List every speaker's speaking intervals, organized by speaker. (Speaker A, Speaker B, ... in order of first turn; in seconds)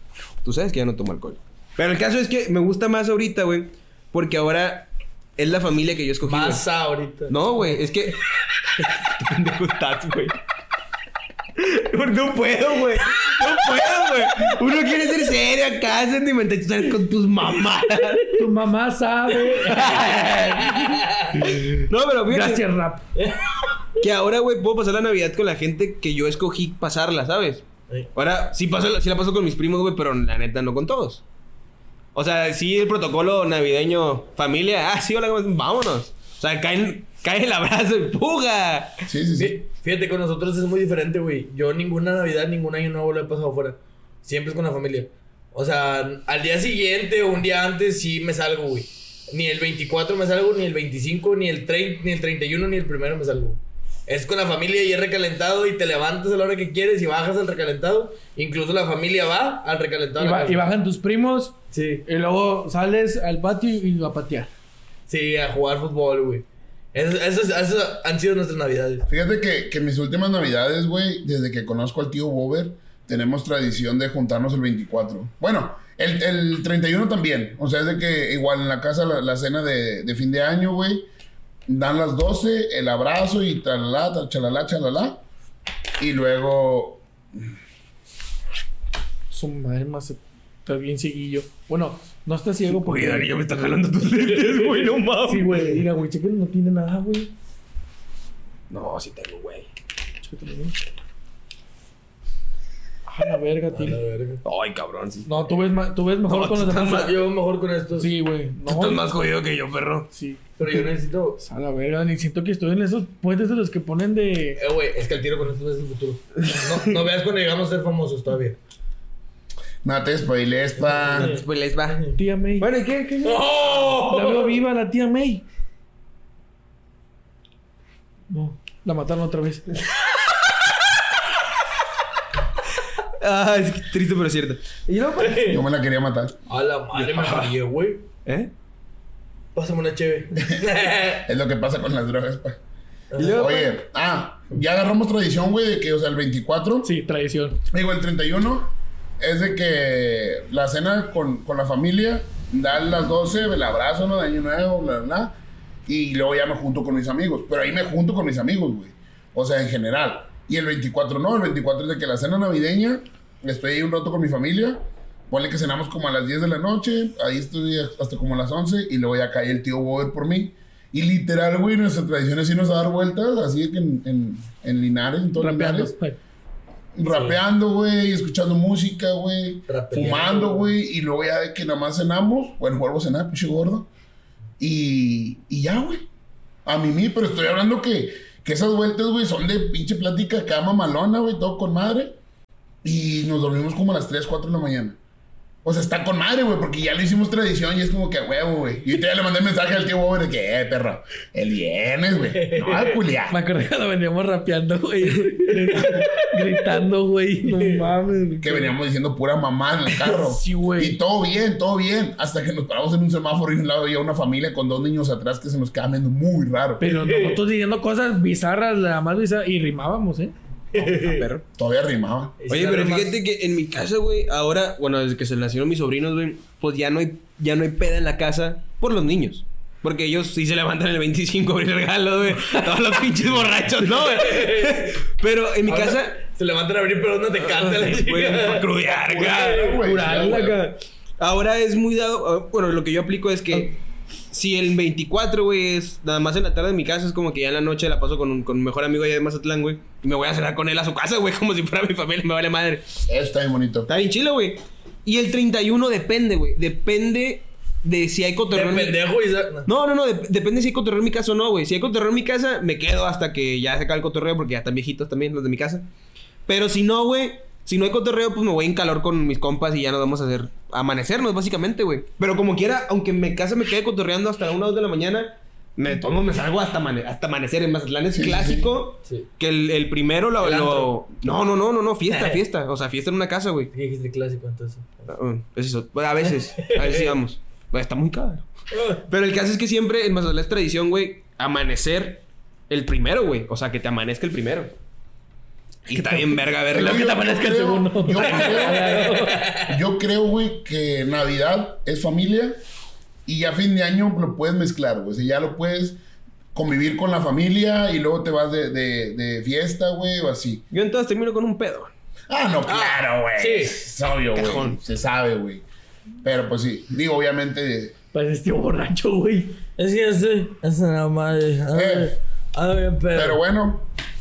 Speaker A: 0.4-6.6, 7.3-8.2, 8.8-10.4, 11.6-18.3, 19.6-22.6, 24.0-31.2, 32.1-39.0, 92.8-95.8, 98.7-99.7, 104.4-105.3, 106.3-107.1, 108.7-110.1, 116.5-116.8, 121.2-123.8, 133.2-135.4, 136.9-137.5, 138.2-138.5, 143.2-143.6, 220.9-221.4, 222.5-236.2, 237.4-243.8, 244.3-252.9, 253.9-259.0, 259.6-265.9, 266.4-283.7, 285.1-294.8, 295.9-297.1, 310.7-311.9, 314.3-314.8
Speaker B: 6.2-7.8, 20.6-21.4, 23.1-23.4, 39.4-60.6, 61.7-62.0, 65.1-69.1, 103.7-104.4, 106.8-108.1, 110.6-111.4, 114.6-118.6, 120.9-122.1, 123.2-124.6, 135.2-135.6, 136.5-138.1, 139.6-141.3, 143.1-143.7, 177.1-177.4, 179.7-180.7, 202.3-203.0, 205.8-206.1, 207.4-207.8, 216.9-217.4, 220.7-221.2, 222.4-223.2, 233.8-234.9, 235.7-240.5, 258.5-259.7, 280.4-280.9, 282.1-282.4, 283.7-285.1, 286.2-287.2, 288.7-289.0, 298.4-299.7, 312.6-313.8, 319.8-323.4
Speaker C: 18.4-20.0, 22.3-23.1, 60.2-64.5, 89.3-93.7, 95.2-97.3, 100.2-100.7, 103.1-104.0, 105.2-107.1, 108.0-109.0, 110.1-110.4, 111.4-114.6, 122.2-122.7, 124.1-125.4, 128.3-129.7, 146.8-147.6, 175.4-176.2, 203.3-208.7, 210.0-211.0, 216.8-220.3, 295.9-299.4, 318.1-319.6
Speaker D: 39.1-39.6, 69.1-81.1, 81.7-85.2, 86.0-87.4, 119.8-121.3, 135.4-136.4, 141.2-142.6, 143.2-146.9, 147.7-155.3, 155.9-175.9, 176.9-183.9, 184.6-186.1, 186.7-192.2, 192.8-195.0, 195.6-203.4, 208.4-216.9, 221.6-222.4, 239.1-240.6, 253.1-253.9, 278.1-278.7, 296.7-299.0, 299.6-302.6, 303.3-306.0, 306.5-310.6, 312.3-315.6, 316.2-317.9, 321.7-322.1, 323.1-323.9